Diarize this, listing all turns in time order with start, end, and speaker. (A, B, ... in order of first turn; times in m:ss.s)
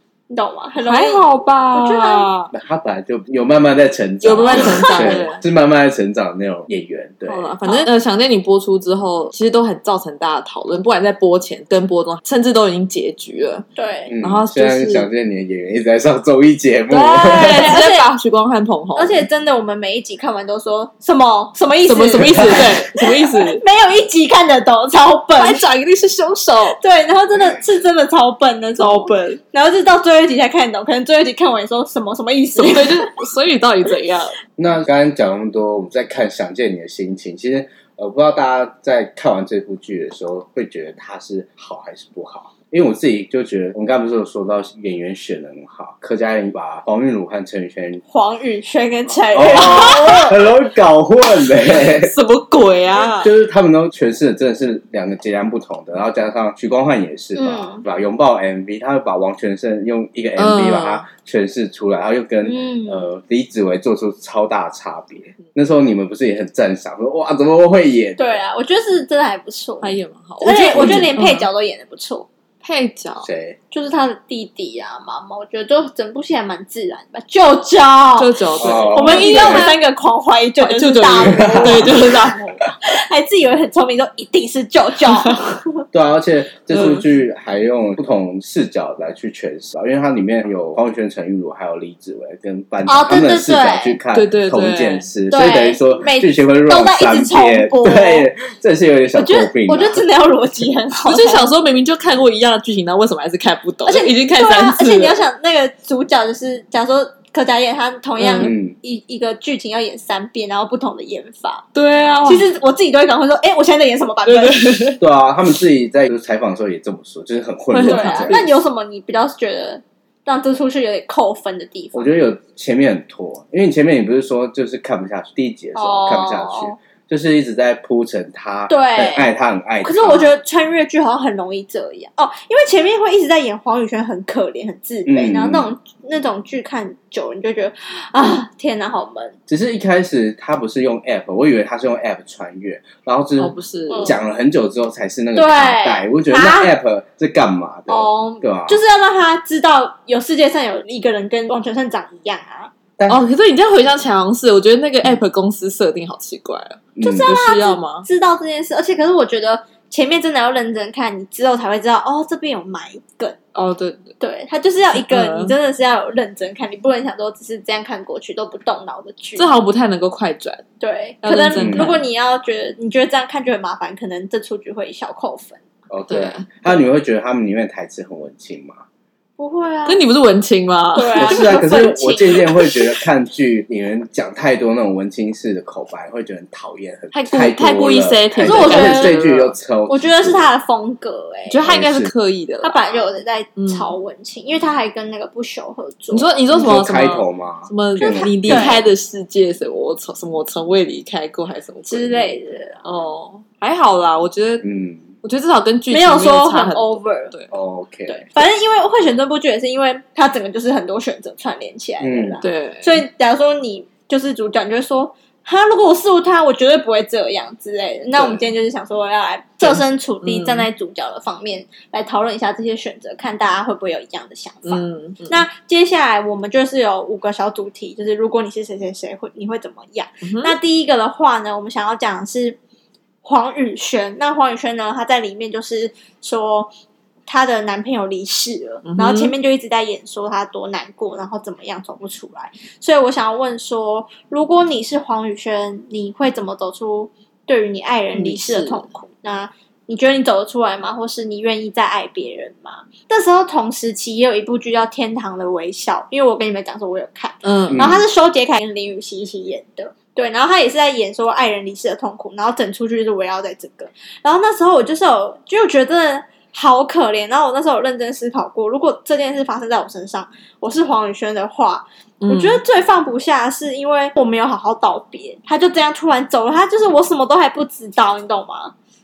0:00.3-0:02.3 A
0:00.9-0:02.5 B
0:02.5-0:07.5 C
0:04.2-0:05.4 B
0:04.4-0:05.2 A
0:07.3-0:13.7 B
0:13.8-0:14.1 A
0:14.1-0:17.8 C
0:14.2-0:15.1 B
0:16.9-0:19.3 B
0:17.4-0:18.1 A
0:19.0-0:33.2 A
0:21.9-0:23.6 B
0:25.4-0:26.8 B
0:28.8-0:29.4 B
0:32.6-0:34.4 B
0:34.6-0:48.0 C
0:48.1-0:50.3 A
0:49.3-0:52.1 C
0:49.6-0:50.2 B
0:51.6-0:53.3 B
0:52.9-1:08.4 C
0:57.4-0:57.8 A
1:00.4-1:01.0 B
1:02.4-1:03.1 A
1:08.2-1:12.3 A
1:09.8-1:11.5 B
1:10.4-1:11.1 C
1:12.6-1:13.3 B
1:13.2-1:13.6 C
1:13.7-1:22.1 A
1:18.2-1:19.7 B
1:18.6-1:19.7 C
1:20.6-1:22.5 B
1:21.2-1:22.1 C
1:22.8-1:25.8 A
1:25.1-1:25.4 B
1:25.9-1:40.0 C
1:26.7-1:27.0 B
1:32.9-1:34.0 A
1:34.1-1:35.1 B
1:35.3-1:38.3 A
1:39.1-1:41.5 A
1:41.1-1:45.2 B
1:43.9-1:51.7 A
1:48.2-1:48.5 B
1:48.4-1:48.7 C
1:51.7-1:52.5 B
1:52.2-1:55.0 A
1:54.3-1:55.0 B
1:55.0-1:58.6 C
1:57.7-1:58.4 B
1:57.8-2:02.1 A
2:01.9-2:10.3 C
2:05.8-2:06.8 A
2:08.7-2:09.3 A
2:09.8-2:19.4 A
2:15.1-2:15.7 C
2:19.5-2:28.8 C
2:23.4-2:24.2 B
2:25.4-2:26.7 A
2:27.9-2:32.7 A
2:33.1-2:38.1 B
2:37.0-2:37.3 C
2:37.0-2:43.4 A
2:43.6-2:44.2 B
2:44.2-2:49.5 A
2:44.9-2:45.5 B
2:49.4-2:50.6 B
2:50.8-2:55.6 A
2:51.2-2:52.0 B
2:51.6-2:51.9 C
2:55.9-2:58.8 C
2:56.1-2:56.5 B
2:59.4-3:00.0 A
2:59.9-3:01.7 B
3:01.0-3:02.8 A
3:01.2-3:10.5 C
3:07.1-3:09.6 B
3:08.4-3:09.2 A
3:09.9-3:11.6 A
3:11.5-3:13.8 B
3:11.6-3:12.1 C
3:12.6-3:16.4 A
3:16.1-3:24.7 B
3:16.5-3:18.8 C
3:18.0-3:18.8 A
3:21.9-3:22.8 A
3:24.6-3:25.0 C
3:25.2-3:27.5 B
3:25.9-3:27.3 A
3:27.5-3:28.2 C
3:28.1-3:52.6 A
3:32.0-3:32.4 C
3:32.4-3:33.0 B
3:38.2-3:38.4 C
3:39.6-3:40.7 B
3:44.7-3:45.4 B
3:50.3-3:50.5 B
3:53.2-3:56.7 A
3:57.3-4:38.7 A
3:58.8-3:59.3 B
4:08.1-4:08.9 B
4:17.4-4:17.8 B
4:17.7-4:18.0 C
4:32.2-4:32.6 B